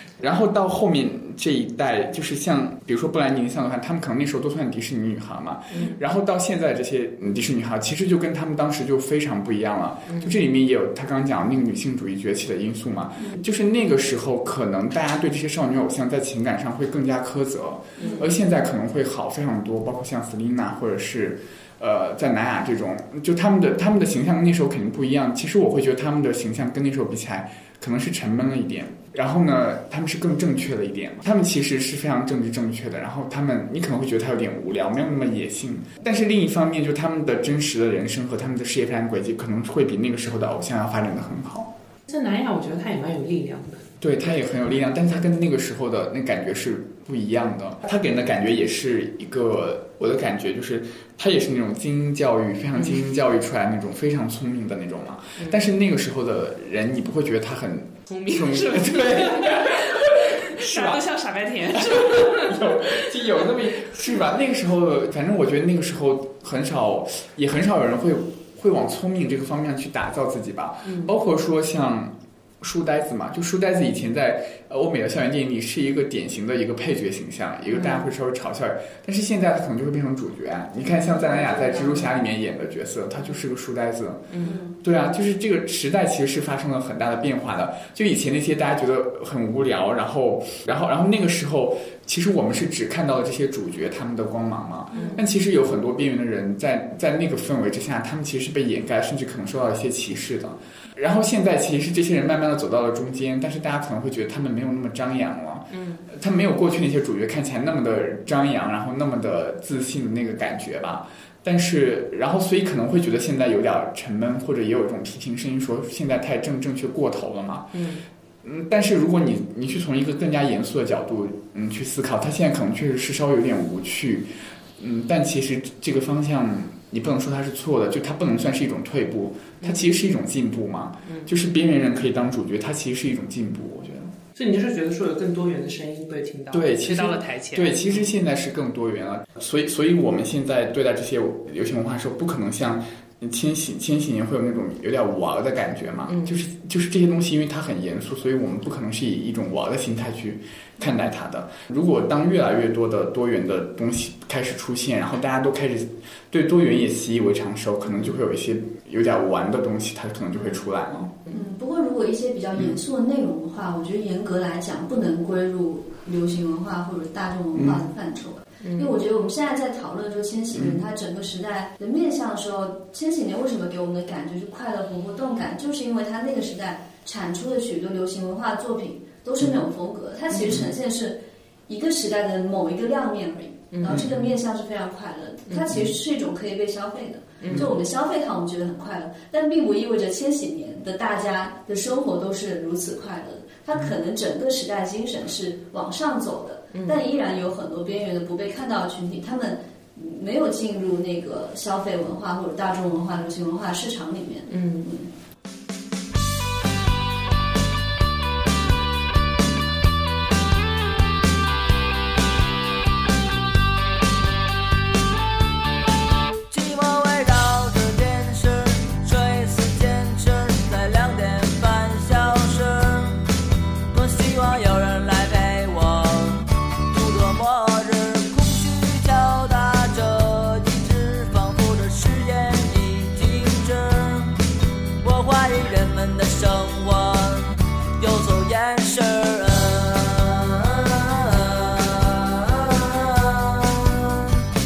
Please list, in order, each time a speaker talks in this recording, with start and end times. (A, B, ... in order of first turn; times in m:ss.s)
0:00.2-0:41.7 A
0:05.7-0:06.0 B
0:10.1-0:10.4 B
0:13.2-0:13.4 C
0:18.0-0:18.2 B
0:18.0-0:18.3 C
0:42.1-0:43.9 B
0:44.0-1:01.0 A
0:52.8-0:53.0 B
0:55.4-0:55.7 B
0:58.1-1:03.4 B
1:01.7-1:57.9 A
1:10.8-1:11.1 B
1:17.7-1:18.1 B
1:21.1-1:22.0 C
1:24.3-1:24.6 B
1:24.4-1:24.8 C
1:34.9-1:35.2 B
1:34.9-1:35.2 C
1:45.7-1:46.1 B
1:57.7-1:58.0 B
1:58.4-2:14.1 A
2:09.6-2:10.0 B
2:11.1-2:11.3 B
2:14.4-2:18.1 B
2:16.5-2:41.1 A
2:26.1-2:26.4 B
2:41.3-3:25.1 C
2:47.6-2:47.8 A
2:48.6-2:48.9 B
2:50.5-2:50.8 A
3:03.7-3:04.0 B
3:03.9-3:04.3 A
3:05.5-3:05.8 B
3:07.4-3:07.7 B
3:07.4-3:07.7 A
3:16.7-3:17.0 B
3:24.5-3:24.9 B
3:36.5-3:43.2 D
3:43.9-3:54.4 D
3:55.0-4:04.3 D